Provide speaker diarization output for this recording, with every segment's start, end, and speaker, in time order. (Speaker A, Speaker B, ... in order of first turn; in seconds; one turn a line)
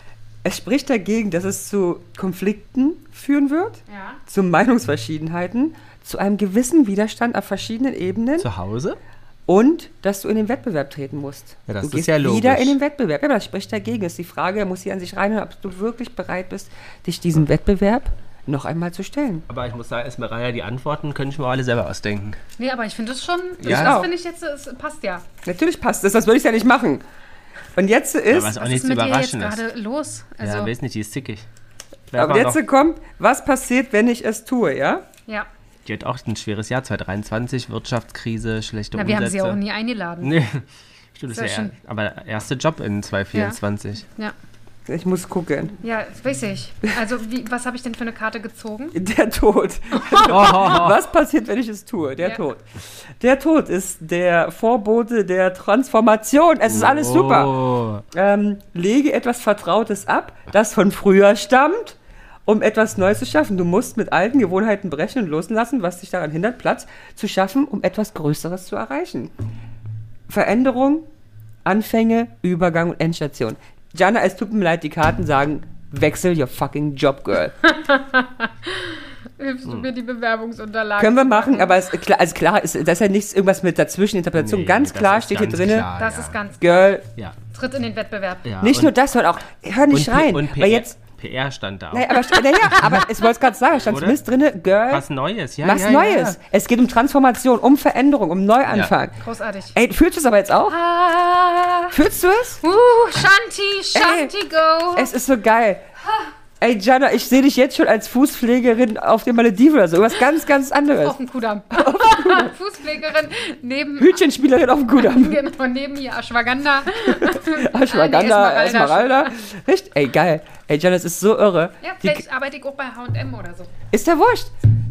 Speaker A: 0.4-8.5
Speaker B: 3.9-4.2
Speaker C: 8.4-9.0
Speaker A: 9.5-19.4
Speaker C: 11.7-12.8
Speaker C: 19.5-22.4
Speaker B: 22.6-25.2
Speaker C: 23.6-24.1
Speaker A: 23.6-24.1
Speaker A: 25.4-27.0
Speaker A: 27.7-28.6
Speaker C: 28.3-29.6
Speaker B: 28.6-30.7
Speaker C: 30.4-31.4
Speaker C: 32.1-32.6
Speaker A: 32.1-35.0
Speaker C: 35.8-39.6
Speaker B: 38.9-40.4
Speaker C: 40.2-44.0
Speaker B: 41.3-41.7
Speaker A: 44.9-45.8
Speaker B: 45.8-49.0
Speaker A: 48.9-57.5
Speaker B: 49.9-50.5
Speaker C: 50.2-51.0
Speaker C: 56.6-58.0
Speaker A: 58.1-69.3
Speaker A: 70.3-71.1
Speaker A: 71.6-77.5
Speaker B: 77.6-81.8
Speaker A: 81.0-85.9
Speaker C: 84.3-86.4
Speaker B: 86.0-86.9
Speaker A: 86.6-87.1
Speaker B: 87.5-88.5
Speaker C: 88.4-88.9
Speaker A: 88.6-90.9
Speaker C: 89.9-92.9
Speaker A: 91.9-95.0
Speaker C: 93.8-94.2
Speaker C: 94.9-96.3
Speaker A: 95.6-99.2
Speaker B: 99.2-99.7
Speaker A: 99.7-100.8
Speaker B: 100.7-102.0
Speaker A: 101.9-102.6
Speaker B: 102.6-105.1
Speaker A: 103.9-104.3
Speaker A: 104.9-105.8
Speaker A: 106.6-111.2
Speaker B: 111.0-114.2
Speaker A: 111.7-112.5
Speaker A: 114.0-115.4
Speaker B: 115.0-119.3
Speaker A: 117.0-122.2
Speaker B: 121.8-123.7
Speaker A: 123.9-124.5